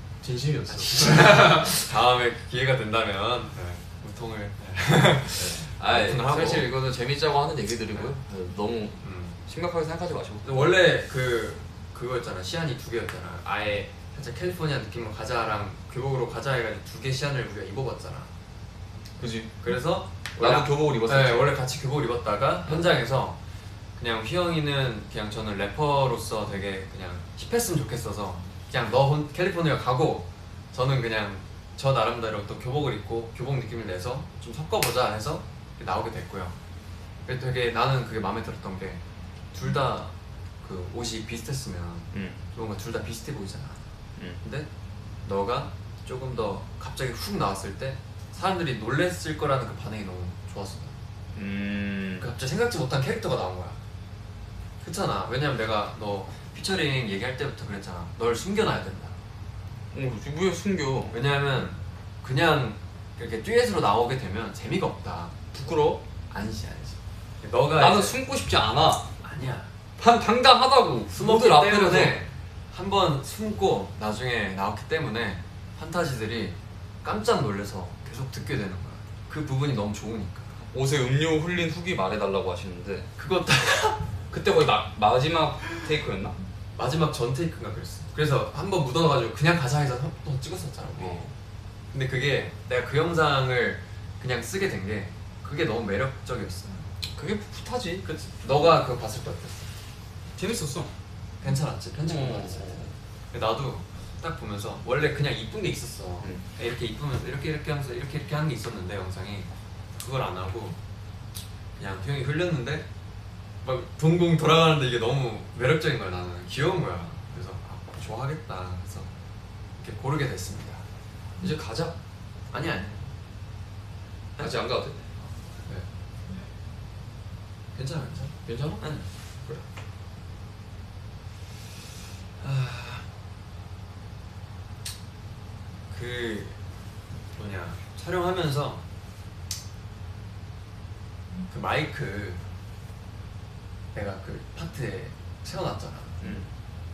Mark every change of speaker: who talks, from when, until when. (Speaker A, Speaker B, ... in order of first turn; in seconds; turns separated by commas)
Speaker A: 0.2-1.9, Speaker B: 0.7-6.7, Speaker A: 5.3-10.4, Speaker B: 9.0-9.4, Speaker B: 10.4-18.3, Speaker A: 19.2-19.5, Speaker B: 19.6-23.4, Speaker A: 20.4-21.6, Speaker A: 22.7-22.9, Speaker B: 23.9-36.5, Speaker B: 37.2-39.0, Speaker B: 39.5-43.9, Speaker A: 42.1-42.4, Speaker B: 44.4-44.7, Speaker B: 45.2-51.0, Speaker A: 51.3-52.3, Speaker B: 52.2-53.8, Speaker B: 54.8-59.1, Speaker A: 59.9-61.1, Speaker B: 61.1-65.4, Speaker A: 65.5-66.0, Speaker B: 66.3-68.2, Speaker A: 67.8-69.1, Speaker B: 69.2-69.7, Speaker A: 70.0-72.2, Speaker B: 71.1-80.5, Speaker A: 80.6-83.1, Speaker B: 83.2-84.0, Speaker A: 84.3-86.4, Speaker B: 86.8-91.2, Speaker A: 91.0-91.3, Speaker B: 91.9-96.9, Speaker A: 97.1-98.1, Speaker B: 98.0-99.7, Speaker A: 100.3-100.9, Speaker B: 101.4-110.8, Speaker A: 102.0-102.9, Speaker B: 111.8-112.9, Speaker B: 113.6-119.1, Speaker B: 119.8-120.8, Speaker A: 121.4-122.0, Speaker B: 122.5-123.1, Speaker A: 124.4-125.0, Speaker B: 127.8-129.1, Speaker A: 128.4-128.8, Speaker B: 132.4-133.1, Speaker B: 135.9-136.6, Speaker B: 137.3-138.8, Speaker B: 141.5-142.4, Speaker B: 143.9-146.4, Speaker A: 146.2-146.5